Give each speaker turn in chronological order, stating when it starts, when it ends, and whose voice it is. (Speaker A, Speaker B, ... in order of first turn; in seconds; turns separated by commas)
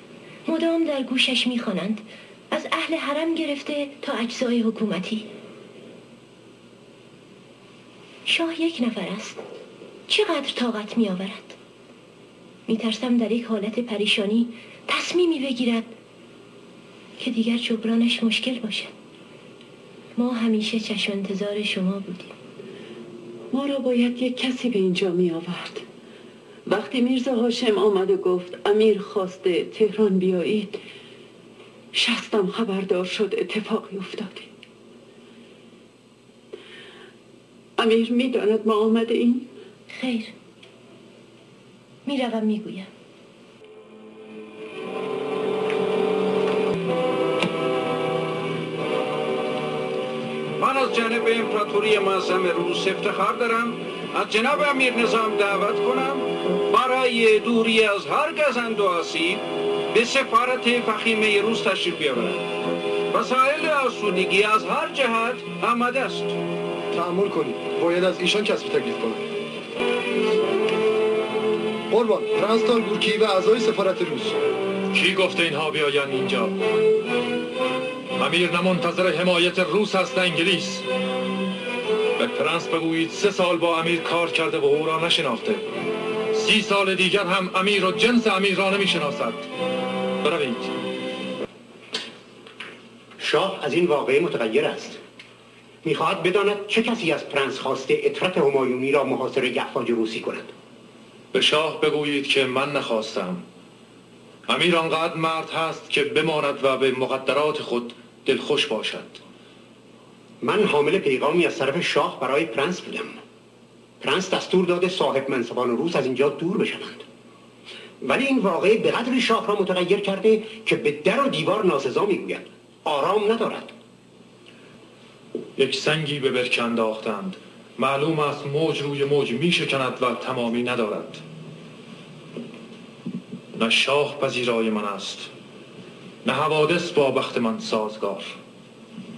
Speaker A: 0.5-5.3, Speaker A: 8.2-9.4, Speaker A: 10.1-11.6, Speaker A: 12.7-15.9, Speaker A: 17.2-18.9, Speaker A: 20.2-22.4, Speaker B: 23.5-25.8, Speaker B: 26.7-30.8, Speaker B: 31.9-34.5, Speaker B: 37.8-39.5, Speaker A: 39.9-40.3, Speaker A: 42.0-42.9, Speaker C: 50.6-62.5, Speaker C: 63.1-66.3, Speaker D: 66.9-69.2, Speaker D: 71.9-74.3, Speaker E: 74.9-76.5, Speaker E: 78.2-80.8, Speaker E: 82.2-85.6, Speaker E: 86.3-89.5, Speaker E: 90.2-90.7, Speaker F: 93.2-95.0, Speaker F: 95.8-100.5, Speaker E: 101.3-103.4, Speaker E: 104.5-109.2, Speaker F: 110.4-113.2, Speaker F: 114.0-117.0, Speaker F: 118.0-123.7, Speaker E: 125.6-131.2, Speaker E: 133.5-135.3, Speaker E: 136.2-138.4